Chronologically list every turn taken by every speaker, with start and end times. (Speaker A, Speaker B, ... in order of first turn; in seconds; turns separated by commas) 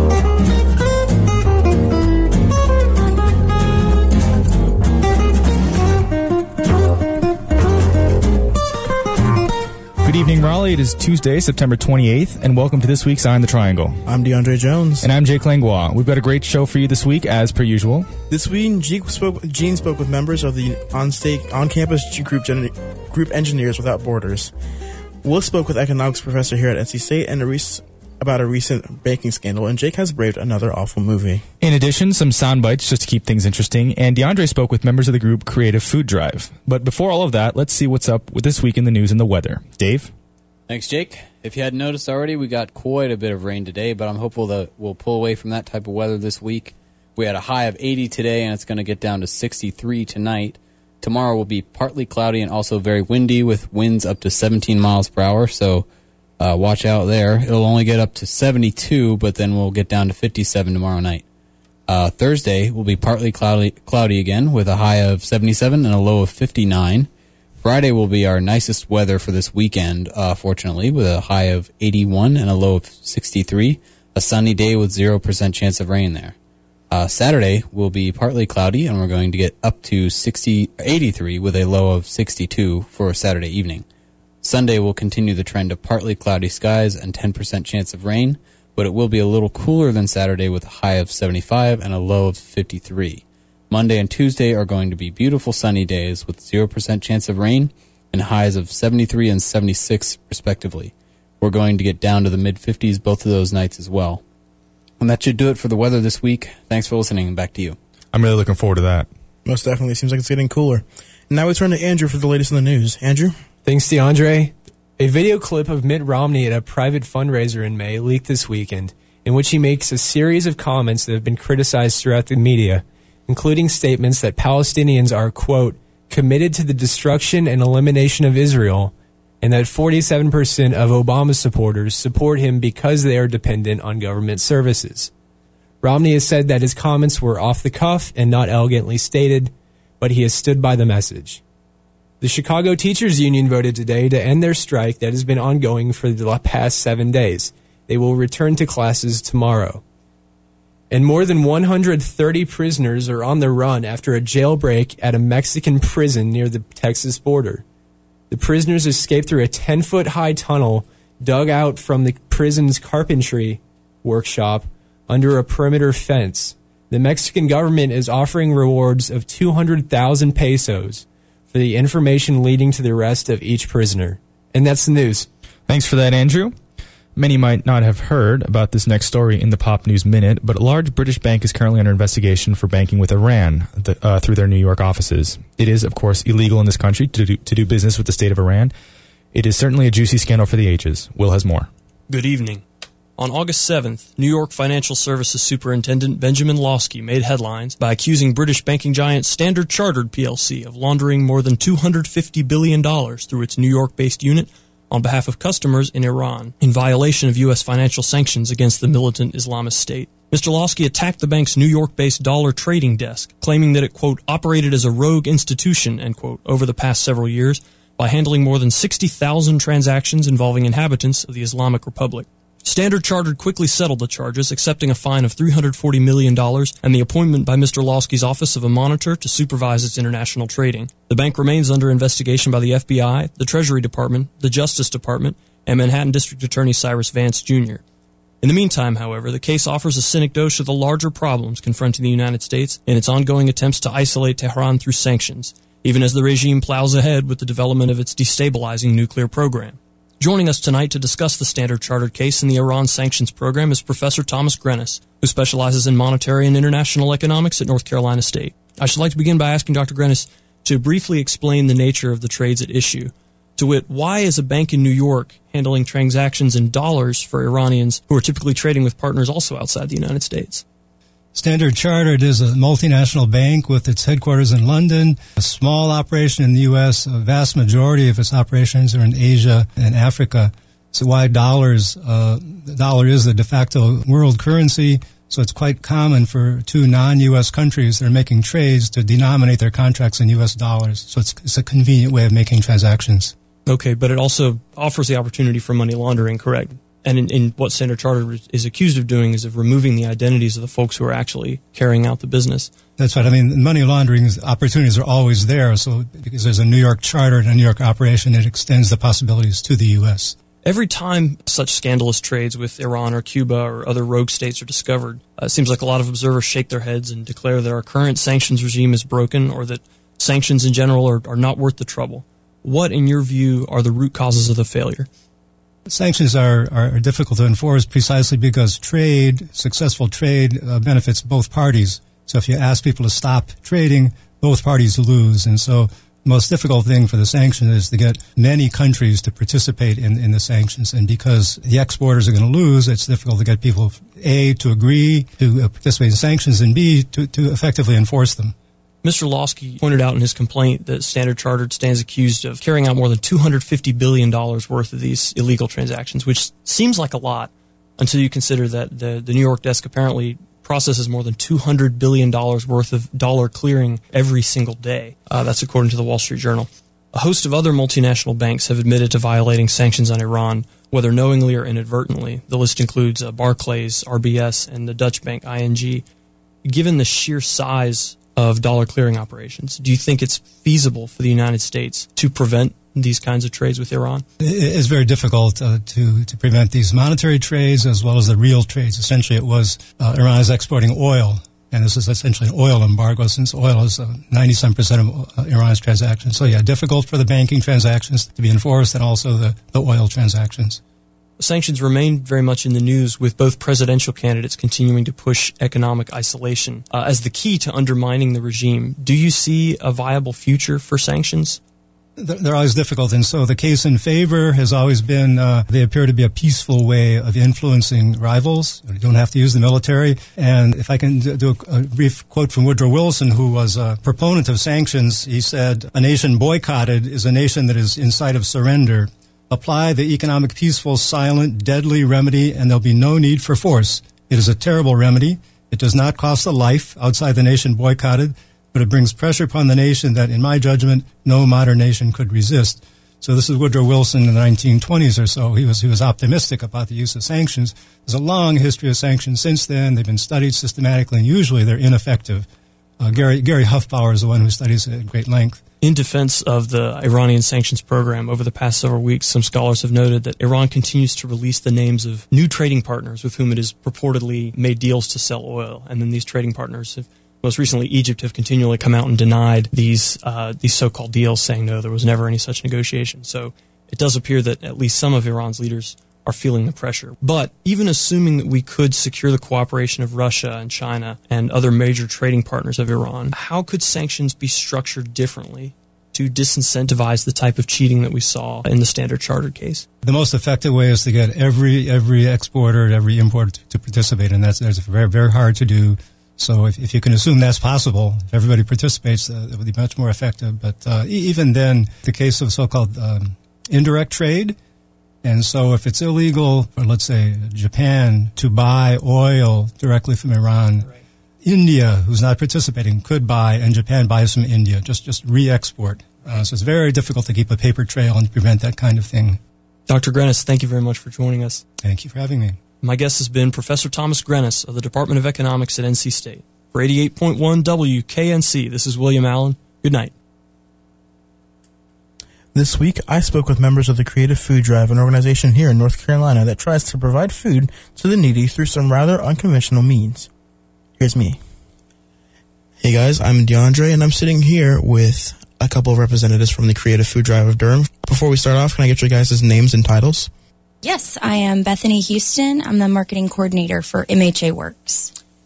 Speaker A: 10.0-14.0, Speaker B: 14.1-15.1, Speaker A: 15.0-18.1, Speaker B: 18.3-24.5, Speaker B: 25.2-31.4, Speaker A: 31.6-40.1, Speaker C: 40.7-55.9, Speaker C: 56.4-61.2, Speaker C: 61.9-67.1, Speaker C: 67.6-76.4, Speaker C: 76.9-83.9, Speaker C: 84.4-104.2, Speaker C: 105.0-107.8, Speaker A: 108.1-109.1, Speaker B: 109.5-113.4, Speaker D: 113.6-135.1, Speaker D: 135.8-141.4, Speaker D: 142.2-149.8, Speaker D: 150.9-157.6, Speaker D: 158.3-175.3, Speaker A: 175.7-176.6, Speaker A: 177.2-188.7, Speaker A: 189.3-191.7, Speaker E: 192.1-192.6, Speaker E: 193.2-237.8, Speaker E: 238.4-270.6, Speaker F: 271.4-293.3, Speaker E: 293.7-302.7, Speaker F: 303.0-310.3, Speaker E: 310.6-325.1, Speaker F: 325.9-348.6, Speaker E: 349.0-376.0, Speaker E: 376.6-384.2, Speaker F: 384.4-400.8, Speaker E: 401.4-411.6, Speaker F: 412.2-452.5, Speaker F: 453.0-455.6, Speaker E: 455.8-489.9, Speaker F: 490.0-504.6, Speaker F: 505.2-510.9, Speaker F: 511.4-519.4, Speaker E: 519.9-521.6, Speaker F: 521.8-522.6, Speaker E: 522.8-530.1, Speaker B: 532.5-540.3, Speaker B: 541.0-541.4, Speaker B: 542.8-550.3, Speaker G: 550.8-555.1